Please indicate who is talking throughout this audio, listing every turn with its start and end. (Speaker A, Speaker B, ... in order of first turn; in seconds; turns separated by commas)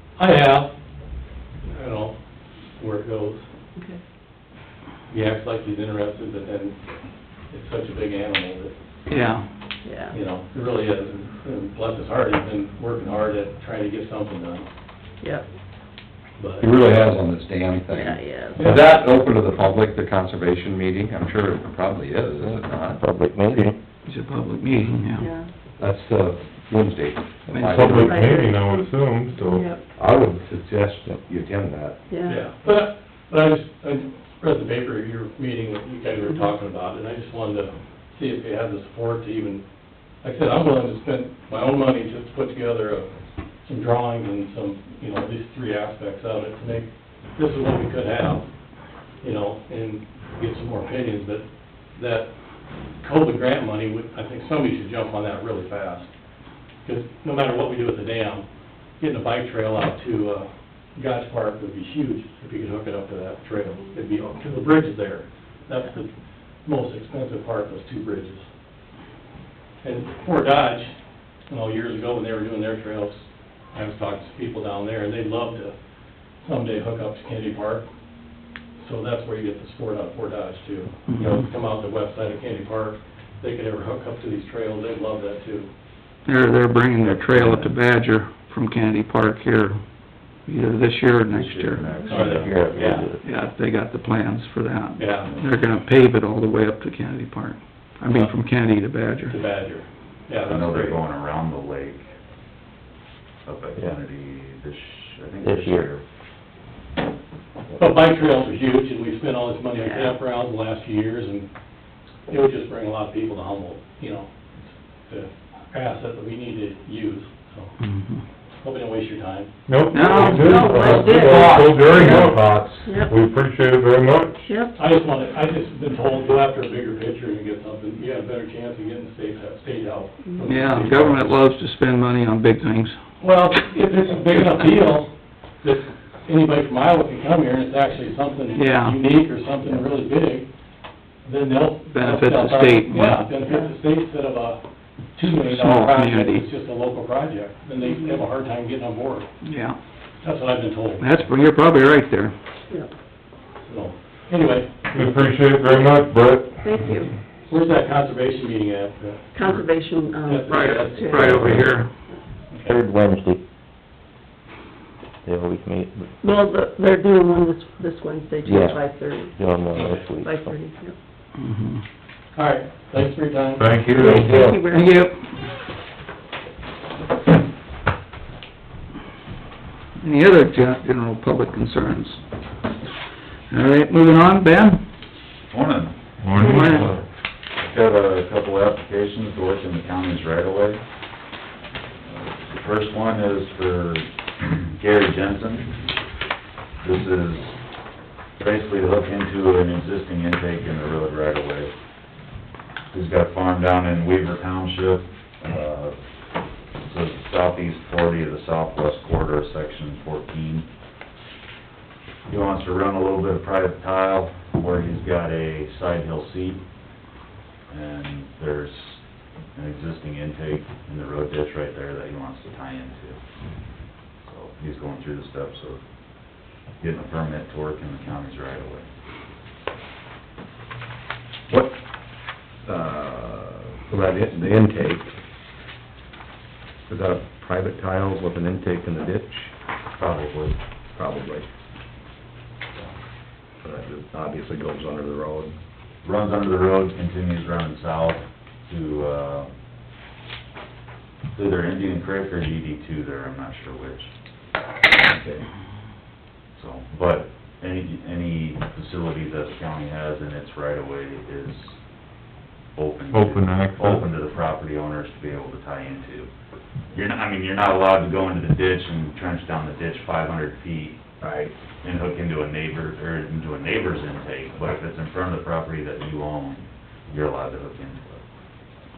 Speaker A: 0.1-0.7, Speaker A: 1.6-2.2, Speaker A: 2.8-3.4, Speaker A: 5.1-6.8, Speaker A: 7.5-8.7, Speaker B: 9.1-9.4, Speaker C: 9.8-10.1, Speaker A: 10.1-14.7, Speaker A: 16.4-16.7, Speaker D: 16.6-23.7, Speaker C: 17.9-18.7, Speaker A: 18.6-19.0, Speaker E: 22.4-23.8, Speaker B: 24.1-25.3, Speaker C: 25.2-25.5, Speaker D: 25.8-28.1, Speaker B: 27.5-28.1, Speaker F: 27.6-29.7, Speaker C: 27.9-28.6, Speaker C: 29.4-29.8, Speaker D: 29.9-32.0, Speaker C: 32.1-32.4, Speaker A: 32.2-39.6, Speaker A: 40.2-43.1, Speaker A: 43.6-48.5, Speaker A: 49.2-51.4, Speaker A: 51.9-52.3, Speaker A: 53.0-56.1, Speaker A: 56.8-58.4, Speaker A: 59.0-66.1, Speaker A: 66.6-68.4, Speaker A: 69.8-70.9, Speaker A: 71.5-75.7, Speaker A: 76.4-77.8, Speaker A: 78.8-85.7, Speaker B: 81.1-81.4, Speaker B: 86.2-89.8, Speaker A: 87.0-87.7, Speaker B: 90.5-92.0, Speaker G: 91.3-93.0, Speaker C: 92.1-92.4, Speaker A: 92.1-93.0, Speaker E: 92.3-93.2, Speaker B: 93.2-99.3, Speaker A: 95.0-95.4, Speaker A: 99.3-101.0, Speaker G: 100.4-102.1, Speaker G: 103.5-106.0, Speaker E: 105.4-105.9, Speaker A: 107.8-111.5, Speaker C: 109.8-110.2, Speaker A: 112.3-117.7, Speaker B: 117.8-118.2, Speaker A: 118.6-119.5, Speaker F: 119.7-124.4, Speaker B: 119.9-120.8, Speaker C: 120.0-123.1, Speaker C: 124.4-124.7, Speaker A: 124.7-131.3, Speaker B: 130.4-133.0, Speaker A: 133.2-140.5, Speaker B: 138.6-139.0, Speaker A: 141.2-144.6, Speaker B: 141.9-143.2, Speaker C: 143.4-143.7, Speaker A: 145.1-149.3, Speaker B: 145.2-146.4, Speaker C: 147.8-148.2, Speaker B: 149.4-149.8, Speaker A: 150.2-151.1, Speaker B: 151.0-152.3, Speaker A: 153.6-155.3, Speaker F: 154.9-156.9, Speaker C: 156.6-157.1, Speaker A: 157.5-159.6, Speaker C: 159.3-161.4, Speaker A: 160.2-161.4, Speaker B: 160.6-161.9, Speaker E: 161.2-161.7, Speaker A: 162.5-162.8, Speaker E: 162.6-163.4, Speaker E: 165.2-166.1, Speaker C: 166.2-169.3, Speaker E: 168.4-170.5, Speaker A: 169.7-170.0, Speaker C: 170.2-170.9, Speaker B: 171.4-171.8, Speaker A: 172.3-173.9, Speaker F: 173.6-174.4, Speaker C: 173.9-175.0, Speaker E: 174.2-174.6, Speaker B: 174.7-175.2, Speaker B: 180.0-182.2, Speaker B: 183.5-184.8, Speaker G: 185.5-185.9, Speaker F: 186.2-187.0, Speaker C: 186.3-186.7, Speaker B: 186.4-186.9, Speaker G: 187.6-190.8, Speaker G: 192.0-195.7, Speaker G: 196.8-197.6, Speaker G: 198.4-201.7, Speaker G: 202.9-205.9, Speaker G: 206.8-210.7, Speaker G: 212.3-216.6, Speaker G: 217.7-219.0, Speaker G: 219.5-223.2, Speaker G: 224.2-225.8, Speaker G: 226.8-228.9, Speaker D: 231.5-231.8, Speaker D: 232.7-235.1, Speaker D: 236.9-239.5, Speaker G: 240.0-240.6, Speaker D: 240.9-241.5, Speaker D: 243.6-245.5, Speaker G: 246.0-249.5, Speaker G: 251.3-254.1, Speaker G: 255.0-255.4, Speaker G: 256.5-261.8, Speaker G: 262.8-266.3, Speaker F: 263.1-264.1, Speaker G: 266.9-271.0, Speaker D: 271.2-271.5, Speaker G: 271.8-278.2